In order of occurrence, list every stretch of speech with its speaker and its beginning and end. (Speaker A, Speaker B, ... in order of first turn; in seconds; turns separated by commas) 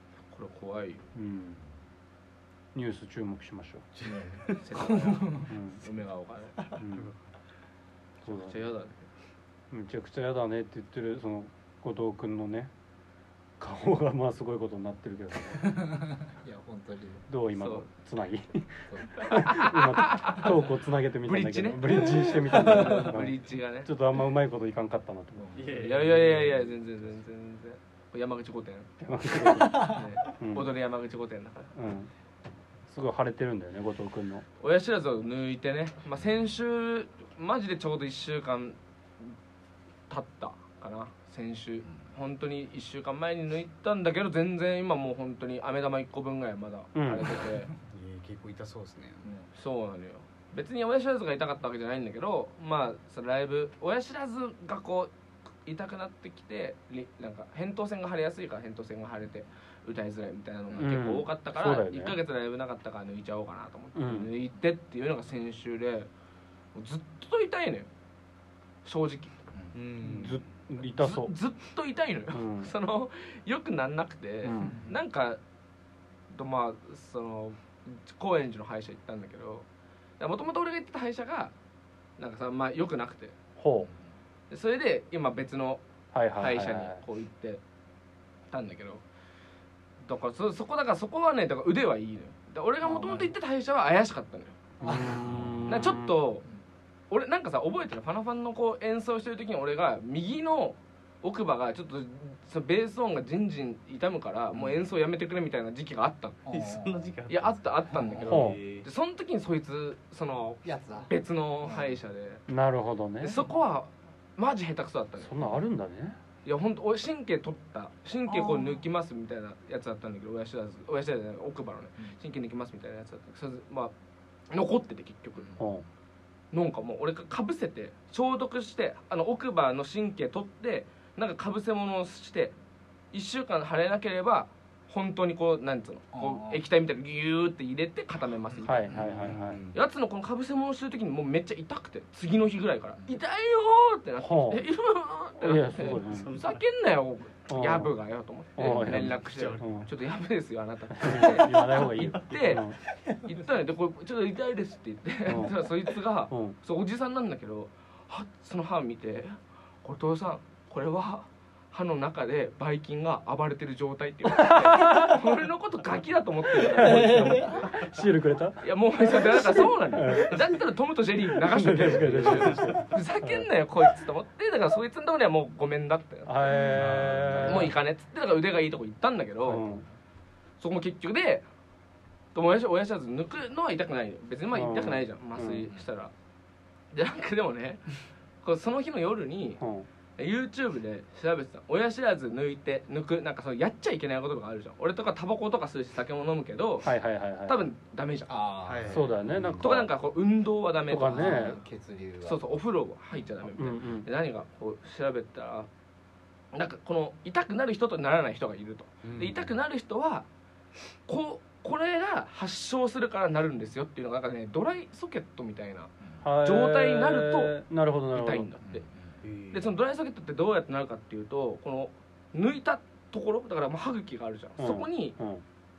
Speaker A: 0.3-1.0, Speaker B: 1.1-1.6, Speaker B: 2.7-3.9, Speaker C: 4.0-4.6, Speaker D: 4.1-5.5, Speaker A: 4.4-6.6, Speaker B: 5.5-5.8, Speaker B: 6.8-7.1, Speaker C: 6.9-7.2, Speaker B: 8.2-8.6, Speaker A: 8.2-9.1, Speaker B: 9.7-12.7, Speaker B: 13.6-16.0, Speaker D: 15.7-17.2, Speaker B: 17.3-25.6, Speaker A: 17.6-17.9, Speaker D: 18.9-19.2, Speaker A: 19.2-20.6, Speaker A: 21.2-23.9, Speaker D: 25.4-25.8, Speaker C: 25.6-26.8, Speaker A: 25.7-28.9, Speaker B: 29.0-30.7, Speaker D: 29.5-30.0, Speaker A: 29.8-31.7, Speaker B: 31.8-32.1, Speaker B: 32.9-34.5, Speaker A: 34.6-39.4, Speaker A: 40.1-47.7, Speaker B: 47.0-47.4, Speaker C: 47.9-49.3, Speaker A: 49.5-55.1, Speaker A: 55.6-66.1, Speaker B: 60.8-62.2, Speaker B: 64.0-64.3, Speaker A: 66.8-67.9, Speaker A: 68.8-69.3, Speaker C: 69.7-70.5, Speaker B: 70.1-71.3, Speaker A: 70.8-75.4, Speaker B: 72.3-72.7, Speaker B: 74.4-74.8, Speaker D: 74.6-75.0, Speaker A: 76.3-79.7, Speaker A: 80.2-81.5, Speaker A: 82.2-83.4, Speaker B: 83.6-83.9, Speaker A: 84.5-85.8, Speaker B: 86.1-87.0, Speaker A: 86.4-87.6, Speaker A: 88.5-89.0, Speaker A: 90.0-94.6, Speaker D: 92.8-93.3, Speaker B: 94.8-96.2, Speaker D: 94.8-95.5, Speaker C: 95.2-95.6, Speaker A: 95.7-96.5, Speaker A: 97.1-106.4, Speaker D: 106.5-107.1, Speaker C: 106.5-108.9, Speaker A: 107.3-112.4, Speaker B: 108.3-108.6, Speaker D: 110.7-111.1, Speaker D: 111.6-112.0, Speaker B: 112.5-113.5, Speaker A: 113.2-115.4, Speaker B: 115.2-116.2, Speaker A: 116.4-123.9, Speaker D: 118.3-118.8, Speaker A: 124.5-125.5, Speaker D: 125.5-125.7, Speaker B: 125.6-125.8, Speaker A: 126.5-132.5, Speaker A: 133.1-138.9, Speaker D: 136.1-136.6, Speaker B: 138.6-139.6, Speaker C: 138.9-139.8, Speaker D: 138.9-139.3, Speaker A: 139.7-152.7, Speaker B: 144.2-144.6, Speaker B: 145.4-146.3, Speaker C: 145.9-146.6, Speaker B: 147.5-147.9, Speaker B: 148.6-149.9, Speaker C: 148.7-149.9, Speaker B: 150.9-152.8, Speaker C: 151.1-152.6, Speaker A: 153.2-167.9, Speaker B: 155.3-155.7, Speaker B: 156.3-156.6, Speaker B: 164.3-165.2, Speaker B: 166.6-170.7, Speaker D: 166.8-167.5, Speaker A: 168.6-176.6, Speaker B: 171.2-173.5, Speaker C: 172.0-172.8, Speaker B: 176.3-177.8, Speaker C: 176.6-177.8, Speaker A: 177.4-179.7, Speaker B: 179.4-179.8, Speaker A: 180.6-181.4, Speaker A: 182.3-186.1, Speaker B: 184.5-185.7, Speaker A: 186.9-189.6, Speaker B: 189.6-189.9, Speaker A: 190.2-196.9, Speaker B: 196.8-197.7, Speaker A: 197.5-198.3, Speaker D: 198.3-199.1, Speaker C: 198.7-199.9, Speaker B: 198.9-199.8, Speaker A: 199.6-201.6, Speaker B: 200.9-201.6, Speaker D: 201.1-202.4, Speaker A: 202.2-205.7, Speaker B: 203.5-204.1, Speaker A: 206.5-210.3, Speaker C: 209.0-209.6, Speaker A: 211.1-215.9, Speaker B: 216.2-218.5, Speaker A: 216.4-217.6, Speaker A: 218.1-218.8, Speaker D: 218.6-219.2, Speaker C: 219.2-219.7, Speaker A: 219.5-225.2, Speaker B: 224.6-225.4